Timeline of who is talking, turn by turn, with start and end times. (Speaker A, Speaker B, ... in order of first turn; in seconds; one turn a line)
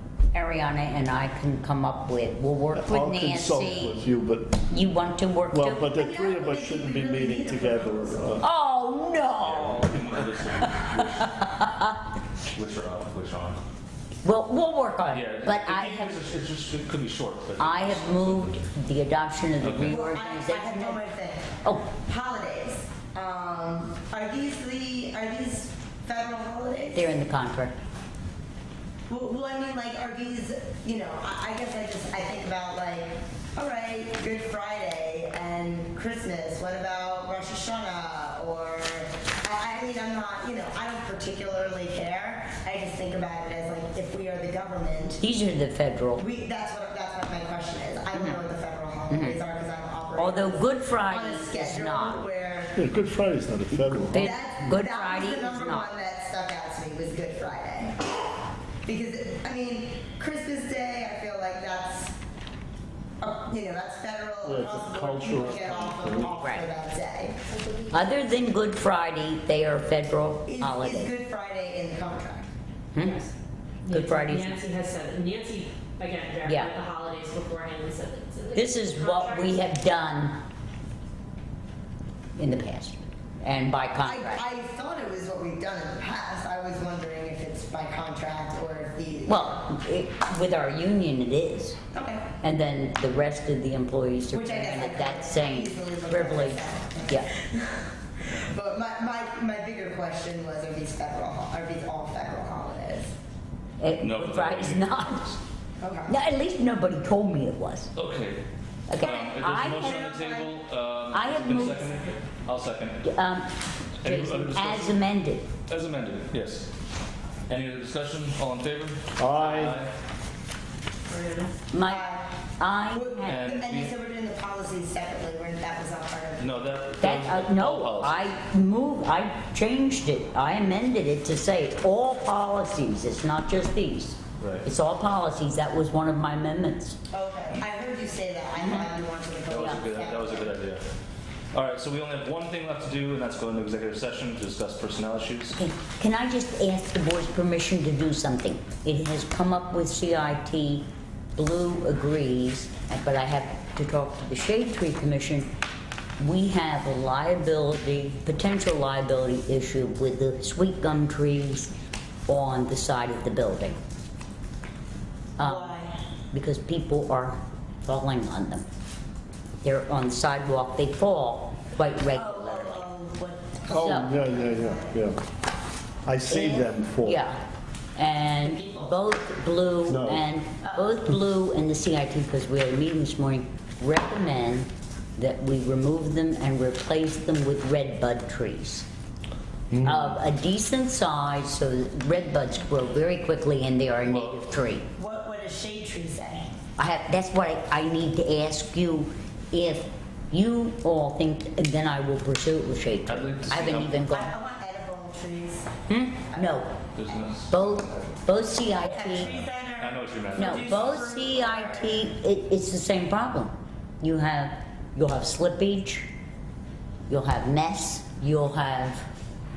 Speaker A: 0.3-4.0
Speaker B: 2.8-4.7
Speaker A: 4.7-6.0
Speaker B: 5.5-8.5
Speaker C: 6.0-8.3
Speaker A: 8.4-11.9
Speaker D: 9.4-11.3
Speaker D: 12.5-13.6
Speaker A: 14.2-16.2
Speaker D: 15.1-18.6
Speaker A: 17.6-21.1
Speaker D: 19.6-20.0
Speaker C: 19.9-27.3
Speaker A: 21.6-22.0
Speaker A: 26.9-27.8
Speaker C: 29.1-45.2
Speaker A: 45.2-46.2
Speaker C: 46.2-52.8
Speaker A: 48.1-48.4
Speaker A: 49.1-49.4
Speaker A: 50.1-52.2
Speaker B: 52.8-54.3
Speaker A: 54.1-55.9
Speaker C: 54.2-58.0
Speaker C: 58.9-62.1
Speaker C: 63.2-67.4
Speaker B: 64.4-66.5
Speaker A: 66.3-66.7
Speaker E: 67.6-68.1
Speaker A: 67.9-71.1
Speaker C: 70.5-72.5
Speaker A: 73.0-73.2
Speaker E: 73.0-73.3
Speaker A: 73.9-74.6
Speaker E: 73.9-79.7
Speaker A: 76.4-76.8
Speaker A: 78.5-80.4
Speaker A: 82.4-84.5
Speaker C: 84.0-89.7
Speaker A: 89.3-91.8
Speaker C: 91.9-92.3
Speaker A: 92.4-97.3
Speaker C: 94.3-103.2
Speaker A: 103.8-105.4
Speaker D: 104.0-105.4
Speaker C: 105.8-106.1
Speaker A: 106.1-107.9
Speaker D: 108.0-108.4
Speaker A: 108.9-109.9
Speaker D: 108.9-113.1
Speaker C: 109.6-110.5
Speaker A: 111.1-111.9
Speaker A: 113.0-113.5
Speaker D: 114.0-115.0
Speaker A: 114.0-115.5
Speaker D: 115.7-116.7
Speaker D: 117.5-119.9
Speaker B: 119.2-119.8
Speaker E: 121.1-121.6
Speaker A: 121.7-122.1
Speaker C: 121.9-126.6
Speaker A: 122.6-123.4
Speaker D: 123.3-123.9
Speaker D: 126.4-128.3
Speaker A: 127.0-137.0
Speaker D: 134.4-134.7
Speaker C: 137.1-140.5
Speaker A: 138.6-139.0
Speaker D: 139.5-140.8
Speaker A: 139.5-139.8
Speaker D: 141.5-145.6
Speaker A: 145.5-155.5
Speaker A: 156.2-161.7
Speaker A: 162.3-163.8
Speaker A: 165.4-165.8
Speaker C: 165.5-166.0
Speaker A: 166.3-168.7
Speaker A: 169.6-172.9
Speaker C: 172.1-174.9
Speaker B: 173.7-175.2
Speaker A: 173.7-174.2
Speaker B: 176.1-177.2
Speaker A: 176.3-177.4
Speaker A: 178.0-188.9
Speaker C: 178.5-179.0
Speaker B: 179.9-180.2
Speaker B: 189.7-190.0
Speaker A: 189.8-194.9
Speaker D: 194.1-194.4
Speaker C: 195.0-196.5
Speaker A: 196.8-204.3
Speaker D: 203.1-204.0
Speaker C: 204.1-205.7
Speaker A: 205.9-206.8
Speaker D: 206.9-208.0
Speaker A: 207.4-209.3
Speaker C: 208.9-212.0
Speaker D: 209.2-211.0
Speaker A: 210.3-216.1
Speaker A: 217.1-219.1